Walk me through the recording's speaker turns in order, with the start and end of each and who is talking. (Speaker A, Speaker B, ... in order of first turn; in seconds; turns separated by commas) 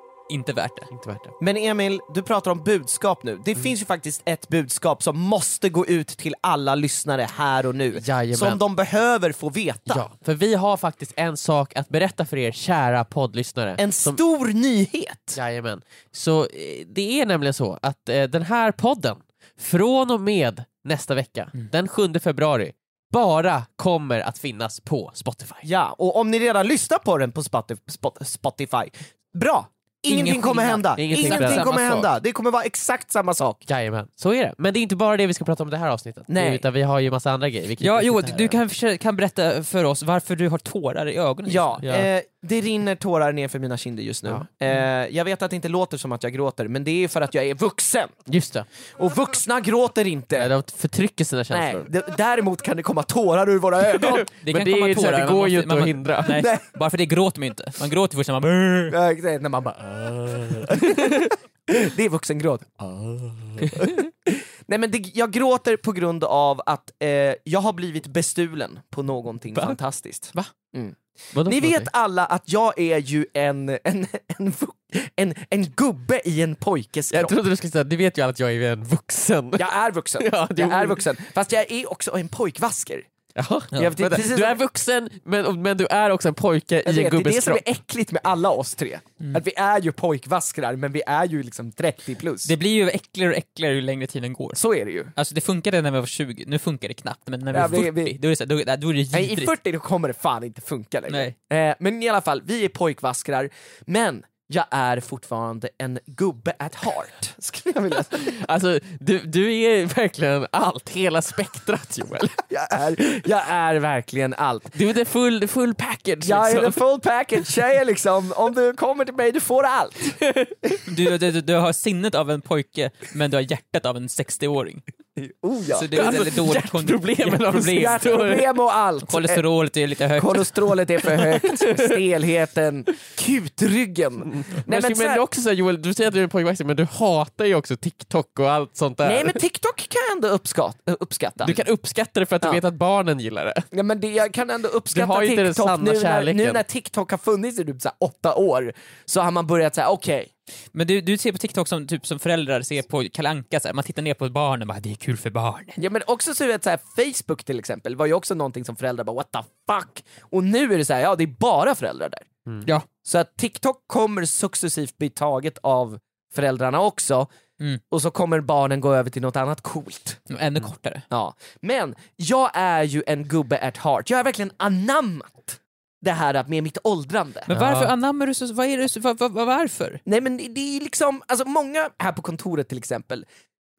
Speaker A: 0.3-0.9, Speaker B: 0.9-1.3, Speaker C: 1.4-10.1, Speaker B: 8.0-8.6, Speaker B: 9.9-14.2, Speaker C: 13.8-15.4, Speaker B: 15.3-25.7, Speaker C: 25.6-33.6, Speaker A: 30.1-32.1, Speaker B: 31.0-31.7, Speaker B: 33.7-38.6, Speaker C: 36.3-36.6, Speaker A: 37.8-41.8, Speaker C: 41.5-48.2, Speaker B: 41.8-42.1, Speaker B: 48.3-48.7, Speaker C: 48.9-50.5, Speaker B: 50.4-51.9, Speaker C: 51.5-54.3, Speaker B: 53.9-56.4, Speaker A: 54.4-59.0, Speaker C: 56.3-56.6, Speaker C: 58.9-77.4, Speaker B: 63.6-64.0, Speaker B: 69.5-69.8, Speaker B: 71.3-71.9, Speaker B: 77.1-81.1, Speaker C: 79.6-83.1, Speaker B: 83.4-87.6, Speaker C: 83.7-84.6, Speaker C: 86.8-92.5, Speaker A: 92.5-94.6, Speaker C: 94.5-95.1, Speaker A: 95.2-99.5, Speaker C: 97.5-98.2, Speaker C: 99.1-108.4, Speaker A: 101.1-101.3, Speaker B: 108.1-112.4, Speaker C: 112.5-114.7, Speaker B: 114.7-116.8, Speaker C: 116.2-120.2, Speaker B: 120.2-120.5, Speaker A: 120.9-124.8, Speaker C: 125.2-125.9, Speaker A: 125.7-128.0, Speaker B: 125.9-128.5, Speaker C: 127.7-129.4, Speaker A: 129.1-130.5, Speaker C: 130.2-135.2, Speaker B: 131.2-132.0, Speaker B: 134.3-139.4, Speaker C: 139.0-141.6, Speaker B: 141.4-143.7, Speaker C: 143.7-150.3, Speaker B: 144.9-146.6, Speaker A: 150.7-155.8, Speaker C: 155.8-162.3, Speaker C: 163.1-167.3, Speaker C: 167.9-170.2, Speaker A: 170.3-171.1, Speaker C: 171.1-177.5, Speaker A: 177.5-180.0, Speaker B: 177.5-177.9, Speaker C: 180.1-183.3